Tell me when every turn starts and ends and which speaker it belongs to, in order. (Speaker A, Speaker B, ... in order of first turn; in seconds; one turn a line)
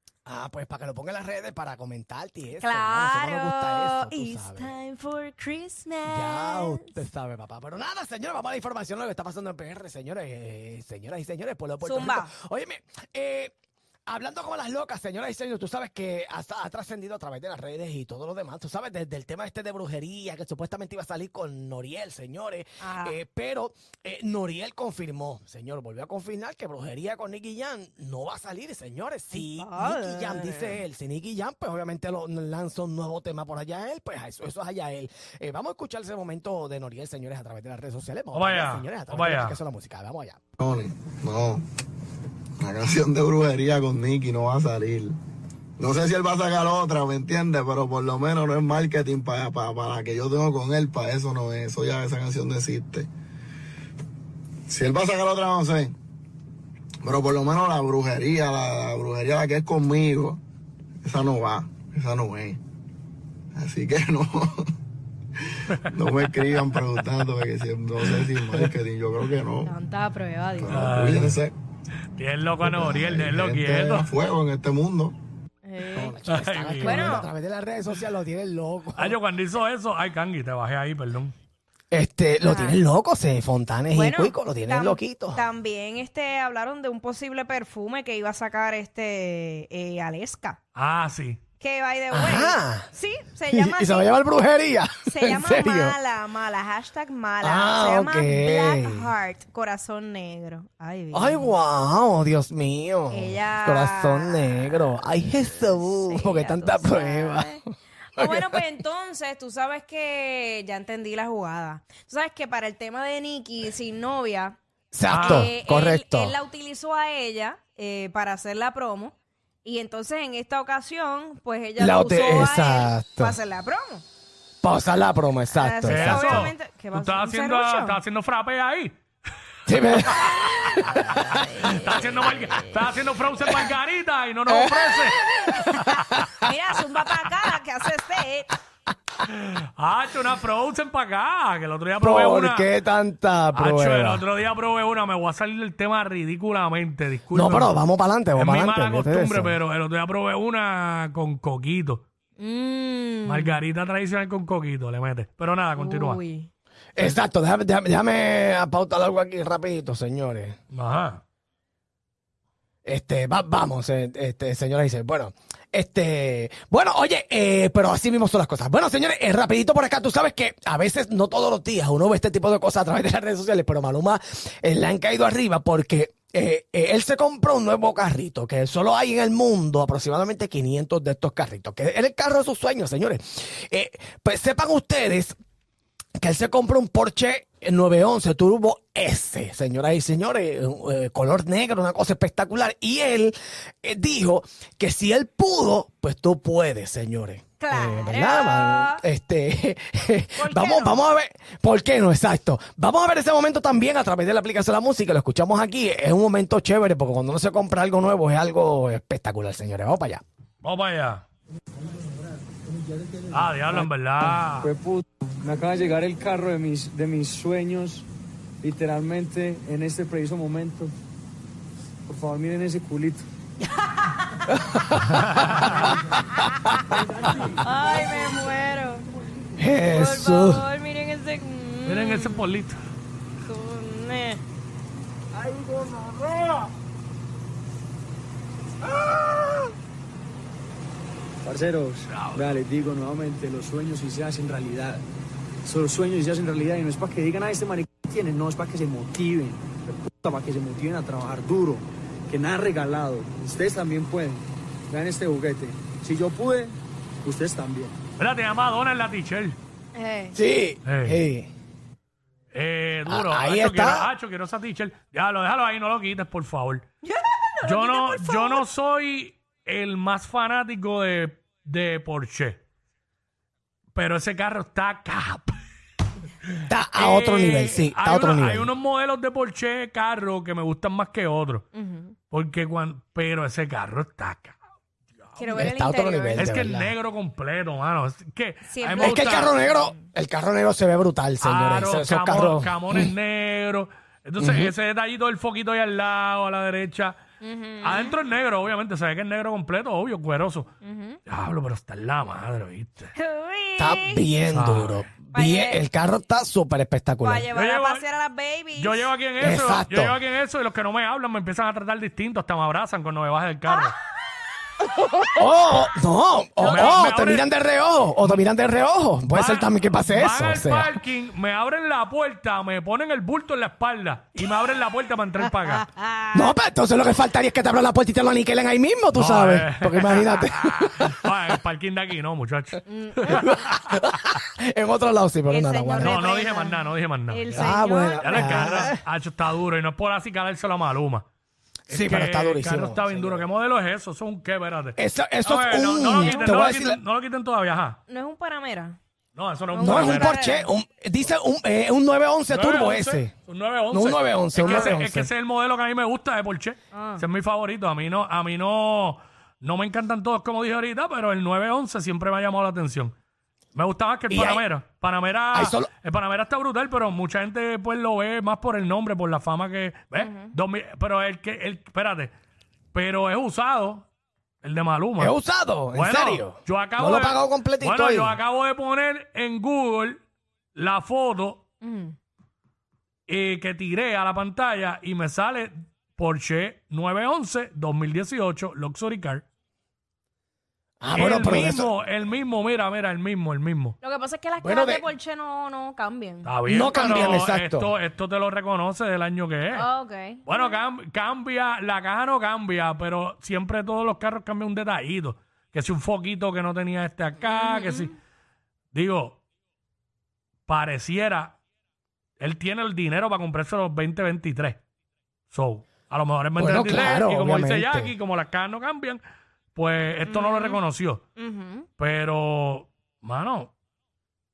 Speaker A: 0.2-4.7
Speaker B: 2.6-7.0
Speaker A: 6.0-13.5
Speaker B: 11.8-12.3
Speaker A: 14.1-40.4
Speaker B: 22.8-23.2
Speaker B: 29.3-30.8
Speaker C: 38.3-39.6
Speaker D: 40.6-41.6
Speaker D: 42.6-45.2
Speaker D: 45.8-53.1
Speaker D: 54.7-55.9
Speaker D: 57.0-60.4
Speaker D: 61.0-62.6
Speaker D: 63.5-64.6
Speaker D: 65.8-69.7
Speaker B: 69.6-70.8
Speaker D: 70.6-71.5
Speaker C: 70.7-71.4
Speaker C: 72.2-74.1
Speaker D: 72.6-75.2
Speaker B: 75.6-76.1
Speaker A: 75.9-79.2
Speaker C: 76.2-77.2
Speaker B: 76.8-77.3
Speaker C: 79.0-81.3
Speaker A: 81.9-85.4
Speaker B: 82.4-82.8
Speaker B: 83.9-90.6
Speaker C: 90.8-91.4
Speaker B: 91.6-94.1
Speaker A: 92.1-92.9
Speaker A: 93.5-96.0
Speaker B: 95.1-101.5
Speaker A: 97.4-99.1
Speaker A: 101.1-107.6
Speaker B: 103.1-104.8
Speaker B: 106.0-107.6
Speaker B: 108.2-114.6
Speaker A: 108.2-108.6
Speaker A: 114.9-116.3
Speaker C: 115.1-115.5
Speaker B: 115.1-124.0
Speaker A: 121.8-123.3
Speaker A: 124.6-126.5
Speaker B: 125.5-128.0
Speaker C: 125.9-128.9
Speaker A: 129.7-130.9
Speaker B: 130.2-132.7
Speaker C: 130.2-135.2
Speaker A: 133.4-133.7
Speaker A: 134.5-136.5
Speaker B: 136.4-138.5
Speaker C: 139.2-142.7
Speaker A: 142.0-144.2
Speaker C: 143.5-147.8
Speaker A: 147.3-149.6
Speaker C: 148.3-152.0
Speaker B: 152.4-153.5
Speaker C: 153.2-156.2
Speaker B: 155.8-156.5
Speaker A: 156.9-160.6
Speaker C: 160.7-161.2
Speaker A: 162.8-185.3
Speaker A: 186.2-210.2
Speaker B: 197.6-199.0
Speaker B: 200.4-201.0
Speaker C: 210.6-211.2
Speaker C: 213.3-214.7
Speaker E: 214.6-218.1
Speaker E: 218.6-220.9
Speaker E: 222.1-223.3
Speaker A: 224.5-226.0
Speaker C: 225.1-225.9
Speaker B: 227.5-229.1
Speaker A: 229.6-230.6
Speaker B: 229.9-232.4
Speaker C: 231.8-232.8
Speaker B: 233.4-234.4
Speaker E: 241.4-245.0
Speaker C: 242.1-242.6
Speaker E: 245.6-258.0
Speaker C: 258.2-259.6
Speaker B: 259.9-260.4
Speaker A: 260.3-261.5
Speaker C: 260.8-261.2
Speaker C: 262.5-266.8
Speaker A: 263.1-264.1
Speaker B: 267.0-268.6
Speaker C: 267.6-272.6
Speaker C: 273.9-275.6
Speaker A: 276.7-278.7
Speaker C: 276.9-281.6
Speaker B: 281.7-282.1
Speaker C: 282.3-284.6
Speaker B: 285.4-286.6
Speaker A: 285.5-286.9
Speaker C: 286.3-289.5
Speaker B: 288.7-290.0
Speaker A: 289.0-293.1
Speaker C: 291.4-297.2
Speaker A: 294.4-294.7
Speaker B: 297.4-298.1
Speaker C: 297.8-300.7
Speaker B: 300.8-301.2
Speaker C: 301.2-303.1
Speaker B: 303.1-304.2
Speaker A: 303.8-307.5
Speaker C: 304.5-305.1
Speaker B: 305.3-305.8
Speaker B: 307.2-309.1
Speaker C: 307.5-308.1
Speaker C: 308.8-313.9
Speaker A: 309.4-310.2
Speaker A: 315.2-321.0
Speaker B: 316.6-317.0
Speaker C: 316.6-317.5
Speaker C: 318.2-318.5
Speaker C: 319.3-325.8
Speaker B: 325.6-326.6
Speaker A: 326.3-331.2
Speaker C: 329.1-334.0
Speaker B: 332.9-333.4
Speaker A: 333.3-336.2
Speaker B: 335.5-338.9
Speaker C: 336.0-341.2
Speaker A: 337.5-339.0
Speaker C: 341.9-348.0
Speaker A: 341.9-343.4
Speaker A: 345.0-347.0
Speaker B: 346.2-346.6
Speaker B: 348.1-349.0
Speaker C: 349.4-350.4
Speaker B: 349.7-350.7
Speaker A: 349.8-353.3
Speaker C: 352.5-363.1
Speaker A: 353.9-355.3
Speaker B: 354.6-354.9
Speaker B: 356.9-357.2
Speaker C: 363.7-372.3
Speaker A: 364.3-364.6
Speaker A: 365.5-365.9
Speaker B: 370.2-370.5
Speaker C: 372.9-374.1
Speaker C: 374.6-375.3
Speaker A: 375.2-378.4
Speaker C: 375.9-380.2
Speaker C: 380.8-381.6
Speaker B: 381.8-382.1
Speaker C: 383.3-389.4
Speaker A: 391.0-391.9
Speaker C: 391.1-393.9
Speaker B: 394.0-397.4
Speaker A: 394.6-395.1
Speaker C: 396.4-399.9
Speaker A: 396.6-397.9
Speaker B: 399.7-400.7
Speaker C: 400.4-408.1
Speaker B: 407.4-408.1
Speaker C: 408.9-409.4
Speaker C: 410.7-411.6
Speaker C: 412.4-414.8
Speaker C: 415.5-419.2
Speaker A: 416.6-418.1
Speaker C: 419.7-421.2
Speaker B: 420.2-420.8
Speaker B: 421.4-421.9
Speaker C: 422.0-423.7